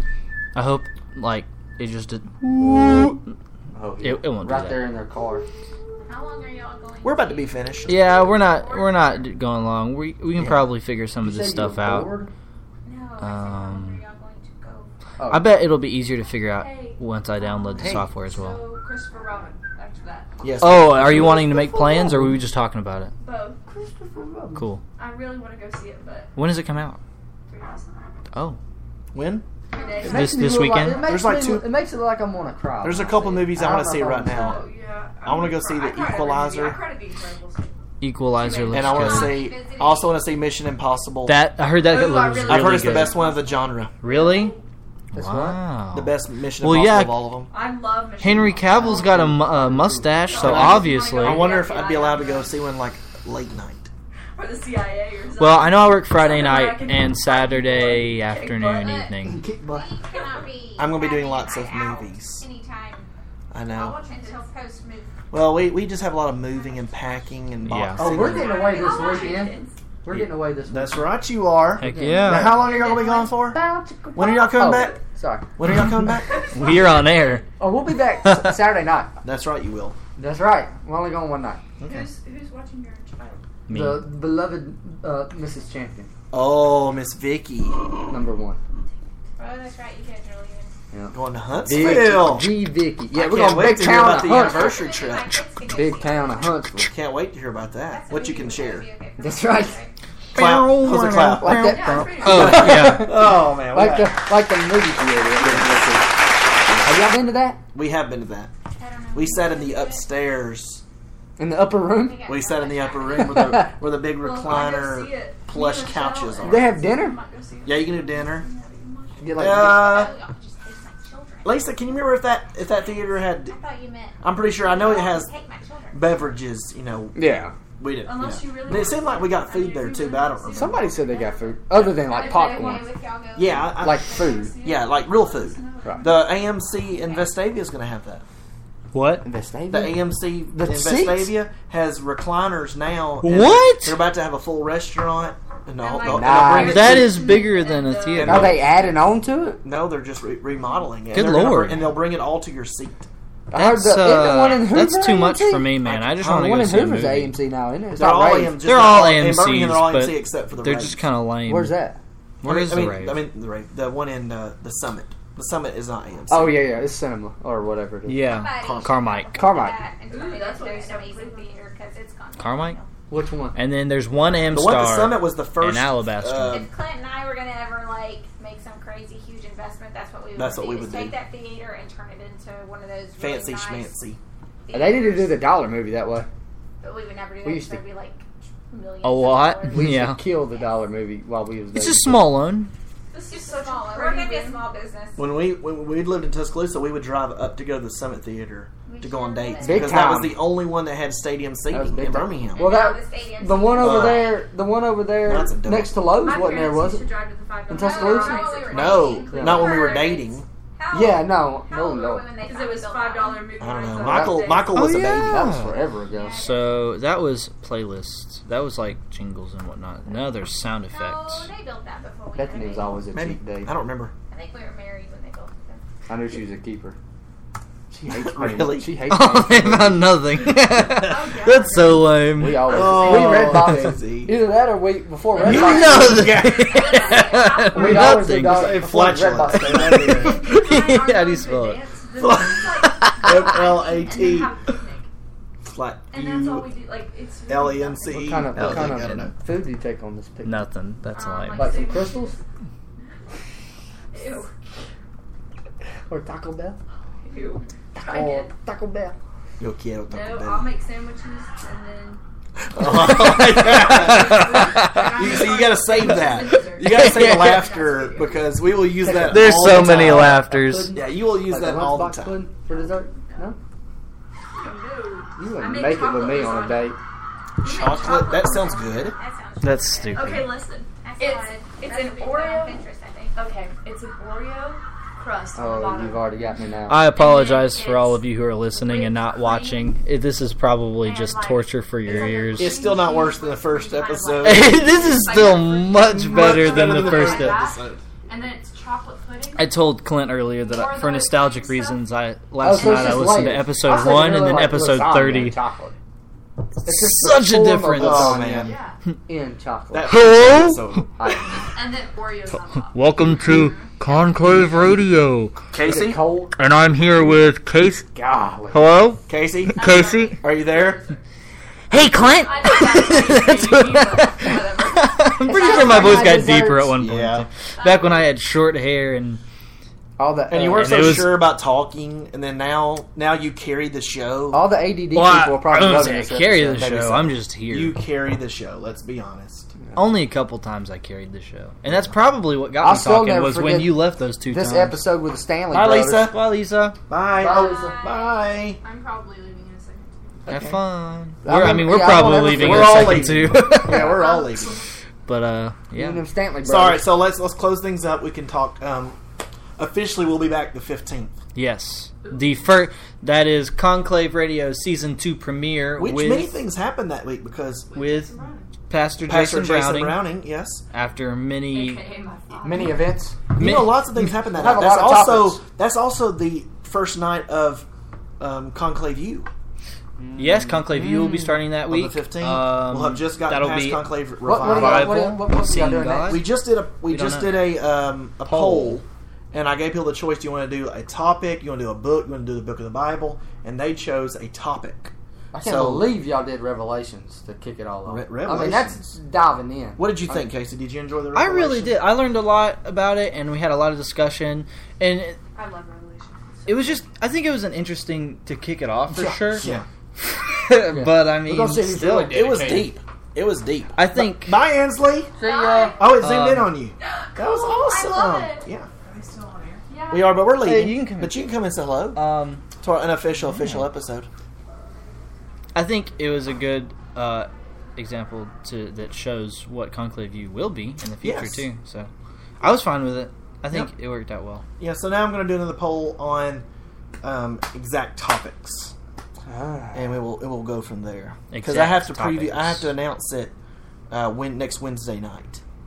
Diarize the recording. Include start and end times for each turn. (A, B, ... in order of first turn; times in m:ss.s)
0:00.6-0:03.3 A
0:03.7-0:05.4 B
0:04.0-0:04.9 A
0:06.1-0:07.9 C
0:07.0-0:08.0 D
0:07.9-0:12.1 A
0:08.1-0:09.3 E
0:10.4-0:10.7 D
0:11.2-0:12.3 B
0:12.8-0:14.9 C
0:13.2-0:14.0 A
0:15.2-0:15.6 B
0:15.3-0:18.7 A
0:16.4-0:20.4 E
0:17.8-0:18.1 D
0:20.4-0:21.6 D
0:20.6-0:23.1 A
0:21.1-0:22.4 B
0:23.2-0:23.6 E
0:23.7-0:24.6 B
0:24.5-0:24.8 A
0:25.0-0:26.3 E
0:26.4-0:27.0 A
0:27.5-0:28.0 E
0:28.3-0:28.6 A
0:29.1-0:29.5 D
0:29.7-0:30.4 E
0:29.7-0:30.2 C
0:30.0-0:34.6 B
0:30.0-0:31.1 A
0:30.9-0:31.7 D
0:32.8-0:34.7 D
0:34.3-0:37.8 E
0:35.2-0:36.8 D
0:38.0-0:39.4 A
0:38.3-0:39.4 E
0:38.7-0:41.4 D
0:38.8-0:40.3 C
0:41.2-0:43.2 A
0:41.7-0:44.6 E
0:42.5-0:43.9 D
0:44.0-0:44.6 A
0:45.1-0:45.6 B
0:45.1-0:47.3 A
0:45.9-0:47.5 D
0:47.5-0:49.3 E
0:48.2-0:51.6 A
0:48.7-0:50.3 B
0:50.3-0:52.5 E
0:50.4-0:53.9 D
0:54.4-0:59.1 E
0:55.4-0:59.4 A
0:59.2-0:59.9 B
0:59.6-1:03.1 C
1:00.8-1:02.4 D
1:03.5-1:04.0 D
1:03.7-1:05.2 C
1:03.8-1:04.5 E
1:05.3-1:08.6 D
1:06.5-1:07.3 C
1:07.6-1:08.2 A
1:08.0-1:11.1 B
1:08.2-1:09.8 E
1:08.4-1:09.5 C
1:10.1-1:13.6 D
1:11.8-1:12.6 A
1:11.8-1:12.7 B
1:12.6-1:13.3 C
1:13.5-1:15.6 B
1:14.2-1:15.0 D
1:15.6-1:16.6 D
1:16.2-1:18.0 E
1:16.5-1:17.5 A
1:17.6-1:19.1 B
1:18.2-1:18.6 A
1:19.2-1:20.0 D
1:20.2-1:21.6 B
1:21.8-1:22.1 D
1:21.8-1:23.4 E
1:23.7-1:24.1 A
1:23.7-1:26.1 B
1:26.3-1:27.9 D
1:28.1-1:28.6 B
1:29.4-1:30.8 C
1:30.9-1:34.9 B
1:31.1-1:35.5 D
1:34.2-1:36.6 C
1:35.7-1:36.9 B
1:36.8-1:38.9 D
1:37.8-1:39.9 C
1:39.2-1:39.8 B
1:40.3-1:43.3 A
1:40.3-1:44.2 D
1:41.3-1:46.2 B
1:41.6-1:42.9 E
1:45.4-1:46.1 D
1:46.8-1:47.6 B
1:47.7-1:48.5 D
1:48.7-1:50.1 C
1:49.1-1:50.8 D
1:51.4-1:52.2 B
1:51.8-1:53.6 C
1:52.3-1:56.8 D
1:53.1-1:53.8 B
1:54.2-1:59.4 E
1:56.4-1:57.2 B
1:57.6-1:58.5 D
1:59.2-2:00.0 B
1:59.4-2:01.9 C
1:59.4-2:00.1 D
2:01.4-2:03.6 D
2:02.5-2:06.3 C
2:04.2-2:05.3 D
2:05.9-2:10.8 D
2:07.2-2:07.5 B
2:08.0-2:12.9 E
2:10.5-2:12.9 B
2:12.0-2:14.2 C
2:13.4-2:14.1 D
2:13.8-2:14.5 B
2:14.0-2:16.6 E
2:14.6-2:18.2 D
2:16.7-2:17.3 C
2:18.9-2:19.2 A
2:19.2-2:21.4 B
2:19.7-2:27.2 D
2:23.2-2:24.0 A
2:25.8-2:29.1 E
2:26.0-2:27.0 B
2:26.6-2:28.6 A
2:28.2-2:28.7 D
2:28.2-2:29.6 B
2:29.6-2:33.1 D
2:31.1-2:32.0 A
2:33.5-2:38.6 B
2:33.5-2:37.4 A
2:35.8-2:36.2 D
2:38.0-2:41.0 D
2:38.6-2:41.8 A
2:41.5-2:42.0 B
2:42.4-2:43.2 A
2:42.4-2:46.6 D
2:46.3-2:48.3 B
2:48.1-2:49.6 A
2:48.2-2:52.9 C
2:48.6-2:49.0 D
2:49.4-2:49.8 B
2:50.1-2:51.5 E
2:52.4-2:52.8 A
2:53.1-2:53.6 B
2:53.6-2:56.7 A
2:54.5-2:56.7 D
2:56.5-3:03.9 C
3:00.4-3:01.2 D
3:03.2-3:04.2 D
3:04.6-3:05.4 C
3:04.7-3:06.3 B
3:06.8-3:10.0 C
3:07.4-3:07.8 B
3:09.0-3:10.2 A
3:09.7-3:12.3 B
3:11.7-3:12.7 A
3:13.1-3:14.7 E
3:13.2-3:15.3 C
3:15.2-3:23.0 D
3:18.9-3:20.2 C
3:19.6-3:20.4 B
3:21.7-3:27.1 B
3:22.5-3:24.3 C
3:23.8-3:24.3 D
3:25.2-3:26.1 D
3:26.2-3:30.1 E
3:27.7-3:28.6 B
3:27.7-3:33.6 C
3:28.7-3:30.5 D
3:29.3-3:29.8 B
3:30.9-3:32.3 B
3:32.4-3:34.7 E
3:33.6-3:35.5 D
3:34.0-3:36.4 B
3:34.7-3:35.8 A
3:36.1-3:36.9 C
3:36.4-3:41.5 A
3:40.9-3:43.0 C
3:42.4-3:43.7 B
3:43.1-3:44.1 D
3:44.3-3:45.8 C
3:46.1-3:47.0 B
3:47.9-3:49.0 D
3:48.1-3:50.2 B
3:49.1-3:53.9 A
3:50.9-3:53.0 E
3:52.3-3:56.4 B
3:52.7-3:54.4 D
3:55.4-3:56.2 E
3:55.4-4:01.9 A
3:55.7-3:58.3 C
3:55.9-3:57.0 D
3:57.7-4:00.4 B
3:58.2-4:00.6 D
4:00.1-4:05.1 E
4:02.2-4:04.5 D
4:02.8-4:03.4 A
4:05.6-4:06.7 D
4:06.1-4:08.4 E
4:07.5-4:09.3 D
4:08.1-4:10.6 B
4:08.6-4:09.3 A
4:10.4-4:12.1 A
4:11.1-4:12.4 E
4:11.5-4:12.4 B
4:14.1-4:14.5 E
4:16.1-4:16.8 B
4:17.2-4:18.5 E
4:18.0-4:19.2 B
4:19.6-4:20.7 D
4:20.1-4:22.2 E
4:22.7-4:32.4 D
4:22.8-4:27.7 A
4:22.9-4:28.6 E
4:29.0-4:33.6 B
4:29.1-4:31.0 A
4:33.3-4:33.5 E
4:34.5-4:37.0 E
4:35.4-4:37.0 B
4:37.6-4:39.2 E
4:37.6-4:39.2 D
4:37.9-4:40.5 C
4:39.6-4:40.5 A
4:40.1-4:42.8 E
4:41.0-4:43.4 C
4:43.3-4:50.0 E
4:45.6-4:47.0 B
4:46.9-4:52.8 A
4:51.0-4:59.8 E
4:52.6-4:54.8 D
4:54.4-4:57.6 A
4:56.0-4:58.0 D
4:59.6-5:05.6 A
5:00.5-5:02.1 E
5:02.6-5:06.0 B
5:02.7-5:03.5 E
5:06.8-5:08.5 A
5:06.8-5:08.7 B
5:08.0-5:08.8 D
5:08.6-5:09.0 E
5:09.3-5:10.1 B
5:09.9-5:11.1 D
5:10.1-5:11.1 A
5:11.2-5:11.6 B
5:11.7-5:14.0 E
5:12.9-5:15.6 A
5:15.7-5:16.2 D
5:15.8-5:16.6 B
5:16.5-5:18.1 A
5:18.1-5:18.9 B
5:18.7-5:20.4 A
5:19.3-5:21.0 D
5:19.8-5:21.2 E
5:21.9-5:29.4 A
5:22.4-5:26.4 E
5:25.4-5:27.0 B
5:27.0-5:27.5 D
5:27.8-5:28.3 E
5:30.2-5:31.3 B
5:30.5-5:34.8 D
5:30.7-5:31.4 A
5:34.5-5:36.8 B
5:35.1-5:38.0 A
5:36.8-5:39.7 D
5:40.0-5:45.0 A
5:42.8-5:46.3 B
5:45.7-5:46.4 D
5:46.0-5:47.0 A
5:47.1-5:48.8 D
5:47.3-5:48.0 B
5:47.5-5:48.4 C
5:48.8-5:50.5 E
5:50.5-5:54.2 A
5:50.5-5:50.8 D
5:51.4-5:54.2 B
5:52.4-5:54.8 D
5:54.0-5:54.9 E
5:55.3-5:56.2 A
5:55.9-5:57.1 B
5:56.6-5:59.2 D
5:59.8-6:01.3 D
6:01.6-6:06.6 A
6:02.2-6:02.6 E
6:06.0-6:07.9 D
6:07.9-6:08.7 E
6:07.9-6:08.3 A
6:08.9-6:10.3 A
6:09.2-6:10.8 D
6:10.9-6:12.0 A
6:11.7-6:13.1 E
6:12.6-6:13.4 B
6:13.6-6:17.9 D
6:13.6-6:14.3 A
6:14.5-6:15.6 B
6:18.4-6:19.5 D
6:20.4-6:26.5 A
6:20.9-6:25.3 D
6:24.4-6:26.4 B
6:26.3-6:36.2 D
6:27.0-6:27.7 A
6:28.4-6:29.0 B
6:35.5-6:40.5 B
6:38.0-6:39.2 D
6:40.0-6:42.0 D
6:41.3-6:45.4 A
6:45.5-6:47.0 E
6:46.7-6:49.7 A
6:49.1-6:49.8 B
6:49.6-6:49.9 D
6:50.2-6:52.9 A
6:50.8-6:52.9 B
6:51.9-6:55.3 D
6:54.0-6:54.6 A
6:55.4-6:56.0 B
6:55.5-6:56.0 E
6:55.5-6:56.0 C
6:56.0-6:58.9 D
6:56.2-6:56.8 A
6:57.3-6:58.6 E
6:57.4-6:58.6 C
6:59.9-7:00.4 E
7:00.1-7:02.2 D
7:00.6-7:01.5 A
7:02.1-7:02.6 A
7:02.8-7:04.3 D
7:03.4-7:03.9 A
7:05.7-7:12.1 A
7:11.2-7:11.6 D
7:12.6-7:14.6 A
7:14.8-7:16.6 D
7:17.2-7:18.9 D
7:19.5-7:20.1 B
7:19.9-7:23.5 D
7:21.5-7:22.9 A
7:24.1-7:25.6 D